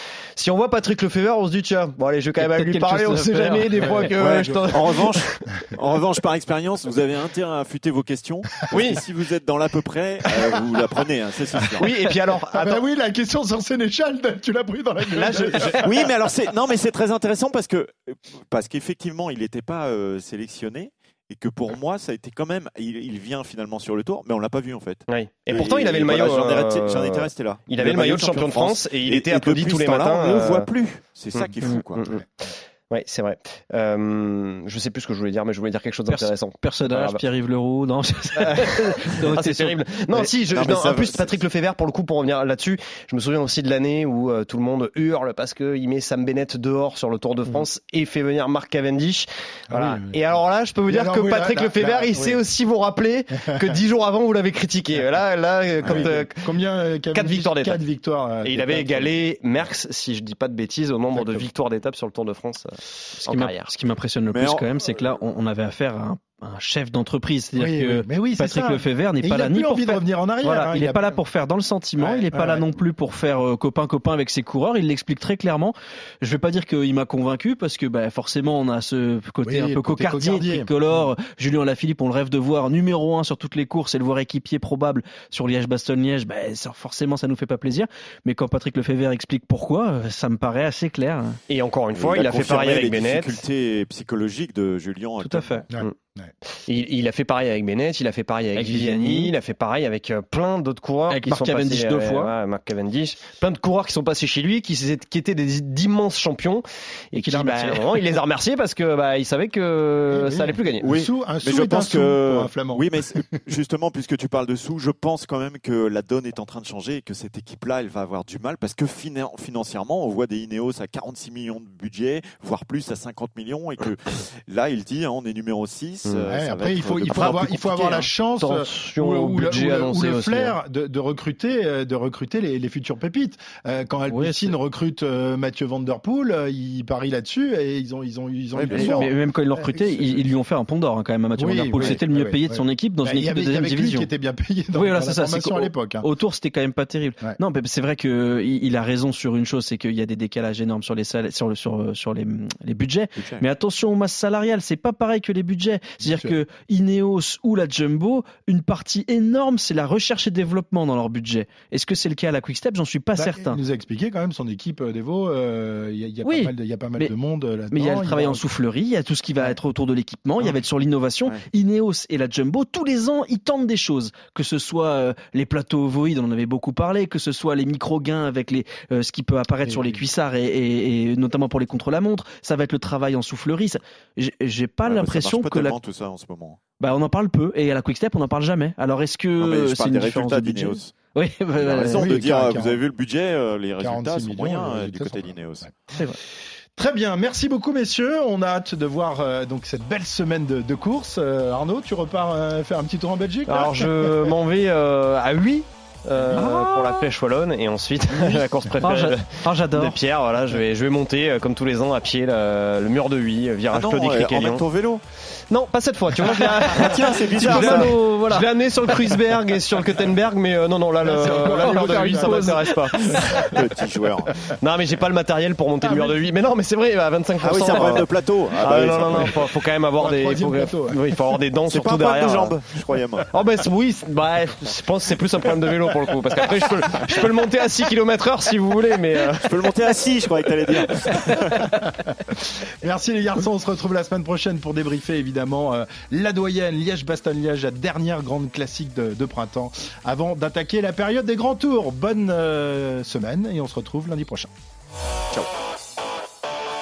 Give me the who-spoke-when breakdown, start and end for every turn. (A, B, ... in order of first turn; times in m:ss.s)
0:00.4-0:05.4 A
0:02.4-0:04.1 B
0:03.8-0:04.7 C
0:04.2-0:11.9 D
0:08.7-0:09.0 A
0:11.8-0:12.8 A
0:12.5-0:15.8 C
0:15.1-0:16.0 A
0:15.8-0:32.2 D
0:25.1-0:30.7 A
0:31.4-0:37.2 A
0:36.1-0:40.3 B
0:38.4-0:56.5 A
0:40.5-0:41.4 D
0:49.7-0:50.2 C
0:50.9-0:52.4 C
0:53.4-0:53.7 C
0:55.8-0:59.2 C
0:57.1-0:57.8 A
0:58.4-1:03.7 A
1:01.1-1:01.5 C
1:03.2-1:31.4 B
1:04.3-1:04.7 D
1:07.6-1:11.2 C
1:12.0-1:12.6 C
1:19.4-1:21.1 C
1:31.5-1:33.4 A
1:31.9-1:35.7 D
1:35.2-1:35.6 B
1:35.7-1:36.3 C
1:36.7-1:51.0 A
1:38.6-1:39.3 B
1:41.1-1:42.3 B
1:47.2-1:48.2 B
1:50.1-1:53.0 C
1:50.9-2:08.1 D
2:06.0-2:06.3 A
2:06.3-2:20.2 C
2:08.4-2:10.5 A
2:14.1-2:14.5 B
2:18.5-2:19.1 D
2:18.7-2:24.1 B
2:21.4-2:26.0 C
2:24.7-2:43.6 B
2:33.2-2:33.4 D
2:36.0-2:36.3 C
2:43.2-2:48.4 C
2:46.2-2:47.1 B
2:47.7-3:05.8 B
2:59.6-3:00.0 C
3:04.8-3:06.6 D
3:06.8-3:12.2 B
3:09.4-3:10.9 D
3:11.6-3:15.7 D
3:11.9-3:12.8 C
3:13.8-3:15.7 C
3:16.8-3:24.3 C
3:23.5-3:34.7 A
3:26.3-3:27.1 B
3:28.2-3:30.0 B
3:33.7-3:35.0 D
3:35.4-3:43.5 A
3:36.7-3:37.9 D
3:37.4-3:38.5 B
3:41.0-3:43.4 C
3:41.2-3:43.4 B
3:43.4-3:44.5 D
3:44.2-3:44.5 C
3:44.6-3:52.6 A
3:45.8-3:46.2 C
3:47.4-3:49.6 D
3:50.0-3:51.0 C
3:51.7-3:53.3 D
3:53.3-3:59.8 A
3:59.4-4:01.7 D
4:01.2-4:14.5 C